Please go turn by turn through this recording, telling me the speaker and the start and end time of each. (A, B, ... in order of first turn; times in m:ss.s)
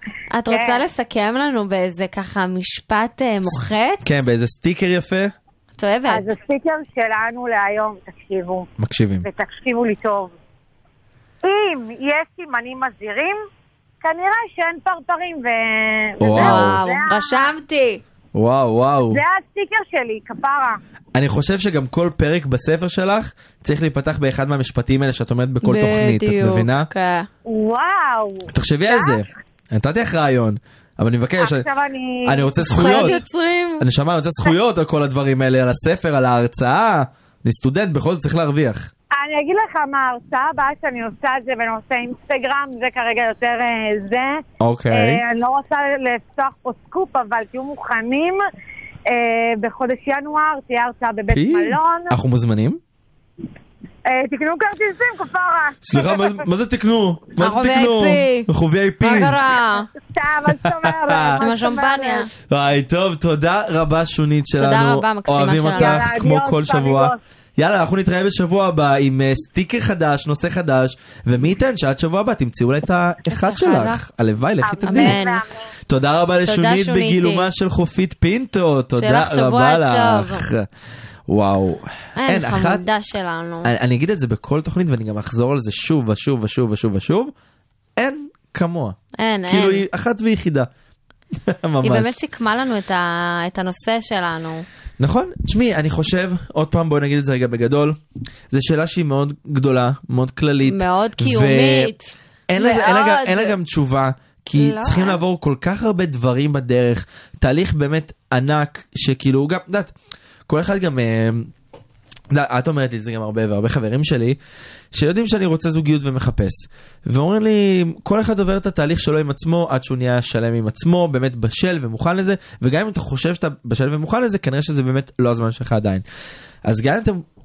0:00.3-0:04.1 A
0:00.5-0:00.8 B
0:04.0-0:05.3 C
0:05.8-0:06.3 A
0:06.1-0:08.7 B
0:08.8-0:09.3 C
0:09.2-0:10.3 B
0:11.4-0:13.4 B
0:14.0-0:17.5 B
0:16.2-0:16.8 C
0:16.3-0:18.0 A
0:18.3-0:19.2 C
0:19.1-0:20.8 B
0:21.1-0:26.9 C
0:25.6-0:27.3 A
0:27.4-0:29.3 B
0:28.5-0:31.6 C
0:31.4-0:33.2 B
0:32.2-0:33.2 C
0:32.6-0:33.8 A
0:33.8-0:38.9 C
0:39.1-0:48.4 B
0:44.6-0:45.2 C
0:49.1-0:52.2 B
0:51.3-0:52.8 C
0:54.0-0:56.4 B
0:55.8-0:59.4 C
0:57.4-0:58.5 A
0:59.0-0:59.9 A
1:00.0-1:02.3 B
1:00.5-1:01.4 C
1:01.4-1:02.3 A
1:02.5-1:15.2 C
1:04.6-1:06.1 A
1:05.7-1:07.2 B
1:13.3-1:14.0 A
1:14.6-1:15.5 B
1:14.8-1:15.4 A
1:15.9-1:20.7 C
1:16.4-1:17.5 A
1:19.0-1:20.5 A
1:21.3-1:22.8 C
1:22.2-1:23.7 A
1:23.6-1:27.3 C
1:28.0-1:30.7 C
1:29.2-1:29.8 A
1:31.3-1:32.2 C
1:31.8-1:34.6 A
1:35.0-1:41.9 C
1:40.6-1:43.6 A
1:42.5-1:49.9 C
1:44.5-1:45.2 A
1:50.5-1:51.5 C
1:52.3-1:54.4 C
1:54.9-2:06.0 C
2:06.6-2:07.2 C